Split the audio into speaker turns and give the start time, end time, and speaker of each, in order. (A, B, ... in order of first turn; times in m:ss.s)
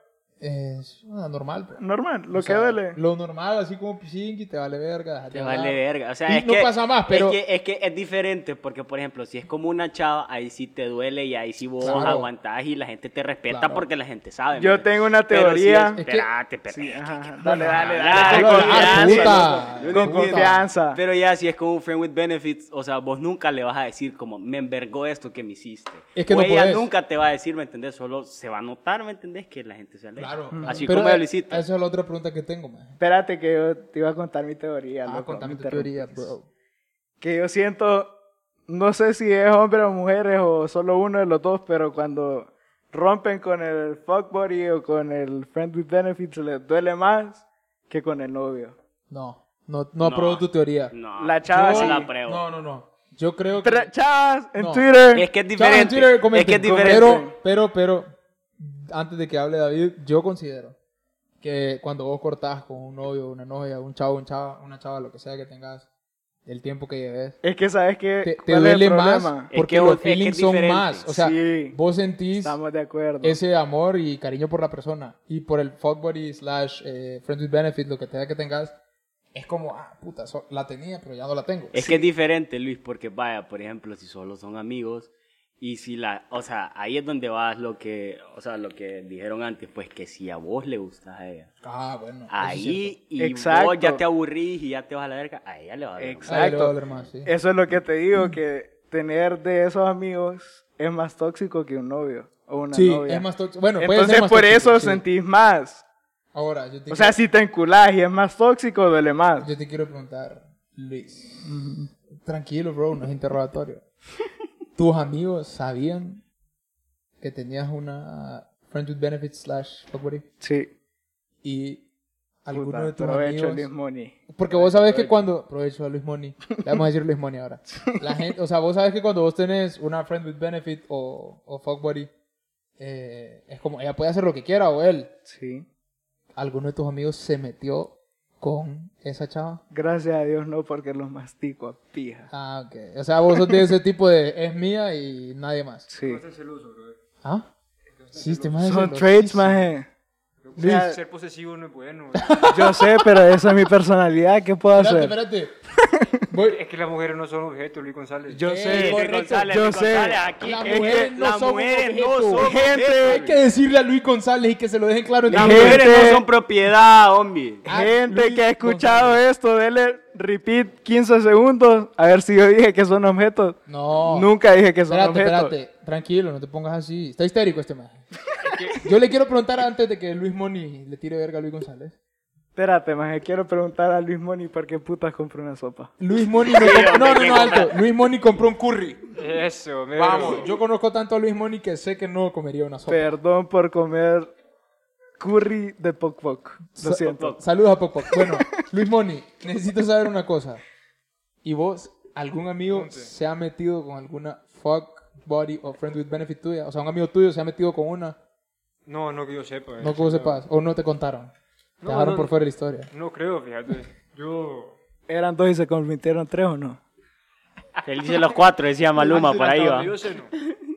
0:00.4-0:01.8 A
0:01.8-0:03.0 B
0:02.3-0:07.4 A
0:05.3-0:31.6 C
0:11.8-0:12.3 A
0:11.8-0:12.1 B
0:13.5-0:13.8 A
0:14.6-0:16.0 B
0:16.0-0:16.3 A
0:16.7-0:21.0 B
0:17.4-0:20.6 A
0:26.1-0:26.9 A
0:30.2-0:33.0 A
0:30.5-0:30.8 B
0:33.0-0:36.3 B
0:35.0-0:36.5 A
0:37.2-0:38.1 B
0:38.7-0:48.8 B
0:49.1-0:51.0 A
0:50.0-0:52.4 C
0:51.2-0:52.1 B
0:51.5-0:53.9 A
0:53.6-0:55.2 B
0:54.6-0:54.9 A
0:55.1-0:57.2 C
0:55.5-1:00.8 A
0:56.6-0:57.3 B
1:01.4-1:05.9 A
1:06.4-1:07.4 A
1:07.4-1:09.5 B
1:08.2-1:12.6 A
1:09.5-1:11.0 C
1:11.1-1:11.8 B
1:12.4-1:13.4 B
1:13.2-1:18.8 A
1:19.3-1:21.8 A
1:21.7-1:31.5 C
1:21.8-1:22.0 B
1:31.6-1:32.9 A
1:32.3-1:36.6 C
1:33.2-1:34.0 B
1:36.0-1:43.2 B
1:36.2-1:37.3 A
1:42.7-1:45.0 A
1:43.8-1:45.8 B
1:46.3-1:47.2 A
1:46.9-1:49.5 B
1:49.4-1:51.6 A
1:51.4-1:51.9 B
1:52.2-1:53.8 A
1:54.8-1:56.2 A
1:57.2-2:00.2 A
2:00.4-2:00.7 B
2:01.4-2:01.8 A
2:02.4-2:03.7 A
2:02.5-2:05.1 B
2:04.3-2:12.1 A
2:12.8-2:15.1 A
2:15.3-2:15.7 B
2:16.4-2:19.6 A
2:19.7-2:22.3 B
2:22.3-2:25.9 A
2:23.3-2:23.6 B
2:25.9-2:26.2 B
2:26.0-2:27.0 D
2:27.2-2:27.5 A
2:28.0-2:28.6 D
2:28.1-2:29.7 A
2:28.6-2:29.9 B
2:30.4-2:32.4 D
2:30.6-2:31.0 B
2:30.6-2:30.8 A
2:32.1-2:33.0 A
2:32.5-2:35.1 B
2:34.7-2:35.5 A
2:35.9-2:36.2 B
2:36.3-2:36.6 A
2:36.4-2:38.4 D
2:38.3-2:41.0 B
2:38.4-2:39.6 A
2:38.7-2:43.3 C
2:40.4-2:46.0 A
2:42.4-2:43.2 B
2:45.3-2:46.2 B
2:45.3-2:47.6 C
2:47.6-2:49.2 A
2:47.7-2:55.5 B
2:53.7-2:54.3 A
2:54.8-2:58.0 A
2:58.4-2:58.8 D
2:58.8-3:02.0 A
3:02.6-3:05.9 B
3:06.0-3:09.0 A
3:06.5-3:07.8 C
3:09.2-3:10.5 D
3:09.9-3:13.1 A
3:12.9-3:14.3 B
3:15.2-3:17.4 B
3:16.7-3:20.6 A
3:17.1-3:17.4 C
3:18.1-3:18.4 B
3:21.4-3:28.2 A
3:22.7-3:23.1 D
3:28.8-3:30.4 D
3:29.8-3:31.3 A
3:31.8-3:32.3 D
3:31.8-3:32.9 A
3:32.9-3:34.8 D
3:35.1-3:36.8 B
3:37.8-3:39.9 C
3:39.0-3:39.9 A
3:39.1-3:40.3 D